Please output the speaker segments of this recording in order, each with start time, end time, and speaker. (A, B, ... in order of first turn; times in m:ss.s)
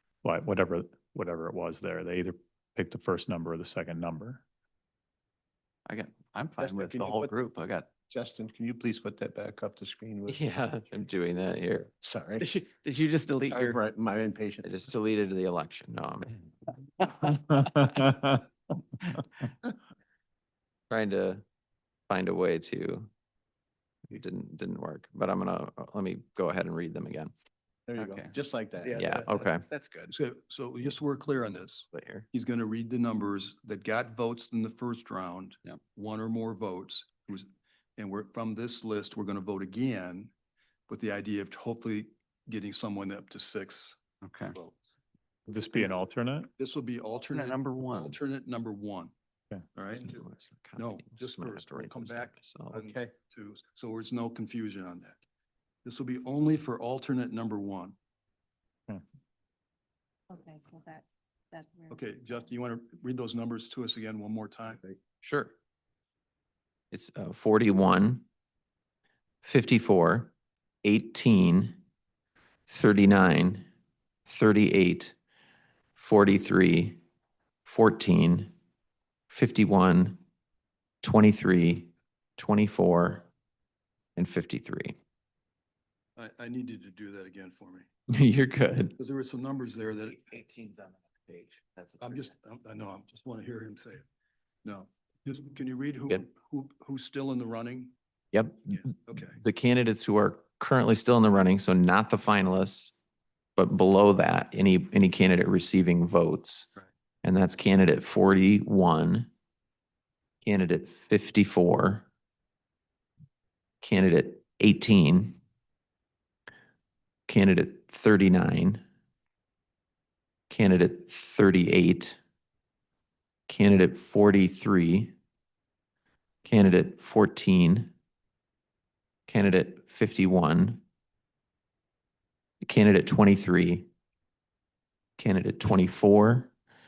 0:00.2-0:04.4 A
0:05.8-0:07.9 B
0:06.6-0:07.3 C
0:08.1-0:10.4 C
0:10.3-0:11.9 D
0:12.0-0:12.5 C
0:12.4-0:13.8 B
0:13.5-0:14.7 C
0:14.6-0:16.4 D
0:17.6-0:18.3 A
0:20.9-0:21.4 D
0:22.1-0:23.1 D
0:24.1-0:27.3 D
0:27.9-0:29.0 C
0:28.0-0:30.1 B
0:28.9-0:29.6 D
0:30.1-0:40.3 E
0:31.9-0:32.2 D
0:40.9-0:44.0 E
0:44.2-0:44.6 B
0:44.5-0:44.8 E
0:45.5-0:46.5 A
0:46.6-0:49.1 E
0:47.3-0:48.2 B
0:49.7-0:50.2 E
0:50.0-0:52.8 D
0:50.8-0:55.2 E
0:52.7-0:53.1 C
0:55.8-0:58.0 E
1:00.3-1:02.4 F
1:01.9-1:04.8 E
1:05.2-1:05.5 D
1:06.9-1:08.2 D
1:09.4-1:11.8 D
1:12.7-1:13.6 D
1:14.2-1:15.2 D
1:16.0-1:17.0 D
1:17.6-1:18.5 D
1:19.3-1:20.2 D
1:21.0-1:23.3 D
1:24.2-1:25.0 D
1:26.2-1:27.9 E
1:28.1-1:28.9 D
1:29.0-1:30.2 E
1:30.1-1:32.3 G
1:32.0-1:34.0 E
1:34.6-1:37.9 E
1:38.3-1:42.9 D
1:38.7-1:39.4 E
1:43.6-1:46.7 D
1:47.2-1:49.3 D
1:50.4-1:52.0 D
1:53.8-1:55.4 D
1:57.3-1:58.8 D
2:00.5-2:02.2 D
2:03.5-2:05.1 D
2:06.4-2:07.9 D
2:09.3-2:10.8 D
2:12.6-2:13.9 D
2:15.2-2:16.5 D